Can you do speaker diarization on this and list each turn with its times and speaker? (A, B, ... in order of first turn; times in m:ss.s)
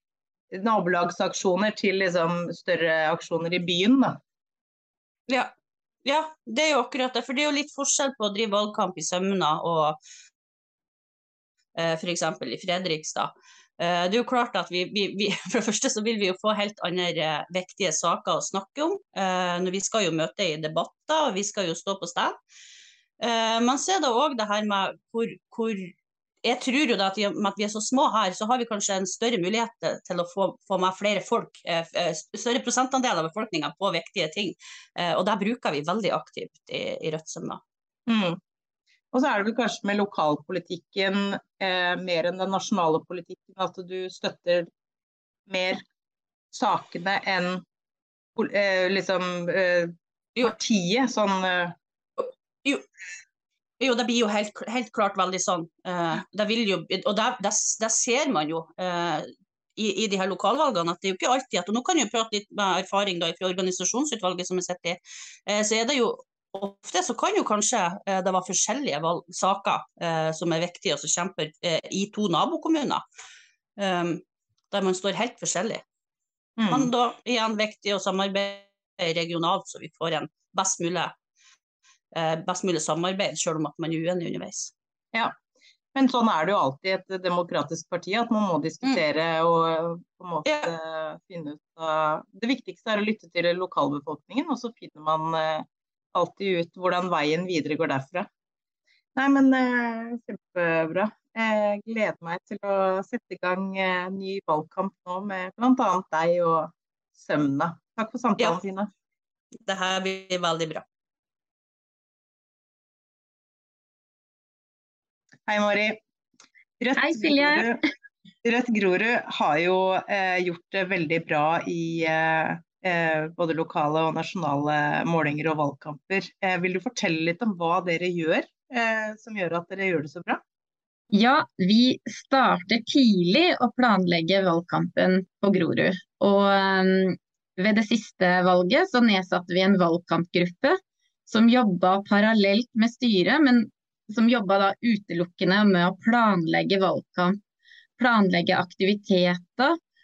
0:00.5-0:04.2 A
0:05.3-0:05.5 B
0:06.0-0:10.0 B
0:11.7-0:22.4 B
0:23.2-0:25.9 B
0:26.4-0:37.6 B
0:38.1-0:38.4 A
0:39.1-0:44.7 A
0:45.5-0:45.8 A
0:46.5-0:47.6 A
0:48.4-0:51.7 A
0:52.2-0:52.8 B
0:53.8-1:13.0 B
1:13.8-1:15.8 B
1:16.6-1:16.9 A
1:16.7-1:21.1 B
1:22.1-1:24.7 B
1:25.9-1:38.3 A
1:30.4-1:30.7 B
1:39.2-1:48.9 A
1:49.7-1:50.8 B
1:55.5-1:56.0 A
1:56.8-1:57.8 A
1:57.0-1:57.7 C
1:58.4-2:10.4 A
2:11.1-2:27.4 C
2:28.0-2:29.8 C